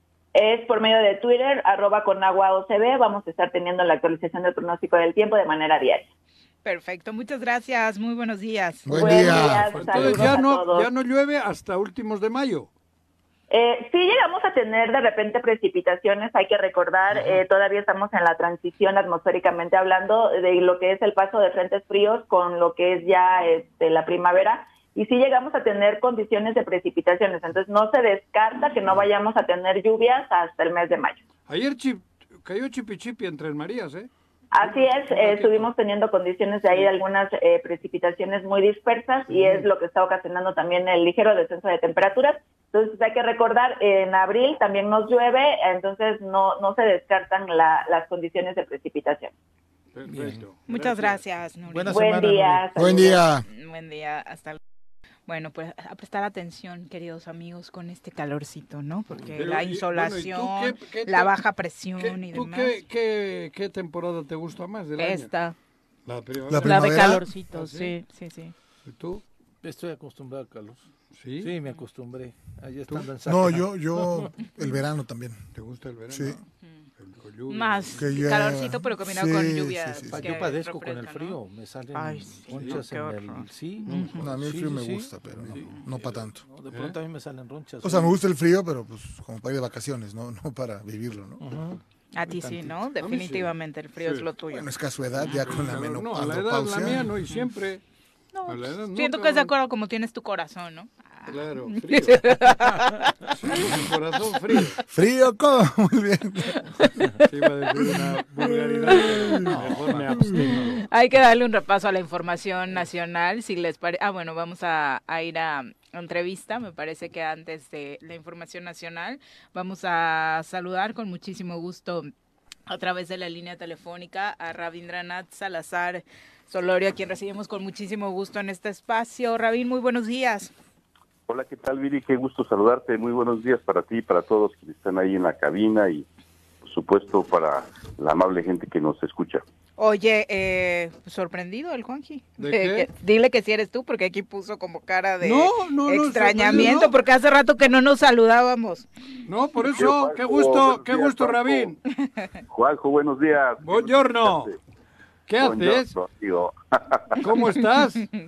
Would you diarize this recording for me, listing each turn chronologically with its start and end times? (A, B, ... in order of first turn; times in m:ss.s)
0:00.3-0:06.1 A
0:06.6-0:09.6 B
0:08.9-0:10.4 C
0:08.9-0:10.9 A
0:09.3-0:12.7 D
0:13.5-0:31.2 A
0:31.5-0:34.1 D
0:34.5-0:49.3 A
0:34.6-0:35.7 D
0:39.3-0:39.6 D
0:49.9-0:51.2 D
0:50.1-0:50.4 E
0:50.7-0:52.2 B
0:51.7-0:52.7 E
0:51.9-0:53.3 A
0:52.8-0:53.5 C
0:53.4-0:54.6 B
0:55.3-1:02.8 B
0:59.2-1:01.4 D
1:02.0-1:05.3 D
1:05.0-1:05.6 B
1:06.1-1:07.9 D
1:06.5-1:07.3 C
1:06.6-1:08.5 B
1:08.9-1:09.2 D
1:09.6-1:10.9 E
1:11.1-1:11.5 D
1:11.4-1:14.3 E
1:13.2-1:15.4 C
1:15.5-1:16.4 D
1:16.1-1:16.4 C
1:17.0-1:18.0 D
1:17.5-1:21.4 B
1:17.9-1:20.4 C
1:20.1-1:28.2 E
1:21.9-1:24.3 B
1:22.5-1:22.8 D
1:23.9-1:24.2 D
1:24.2-1:26.4 C
1:26.7-1:27.0 D
1:27.8-1:31.4 C
1:31.4-1:32.8 E
1:32.1-1:34.7 B
1:33.0-1:34.3 D
1:34.5-1:37.1 C
1:35.2-1:37.8 D
1:38.3-1:43.8 B
1:38.5-1:39.5 D
1:41.3-1:42.2 D
1:43.3-1:44.8 D
1:44.9-1:46.9 C
1:47.2-1:50.8 D
1:47.7-1:50.6 C
1:50.4-2:02.1 B
2:02.7-2:10.5 B
2:11.3-2:16.1 F
2:16.6-2:19.4 F
2:19.8-2:28.9 B
2:22.4-2:22.9 D
2:25.2-2:27.0 D
2:29.3-2:31.8 D
2:29.7-2:31.7 F
2:32.5-2:34.5 F
2:33.6-2:34.5 D
2:35.3-2:35.9 D
2:35.4-2:37.2 F
2:37.2-2:38.1 D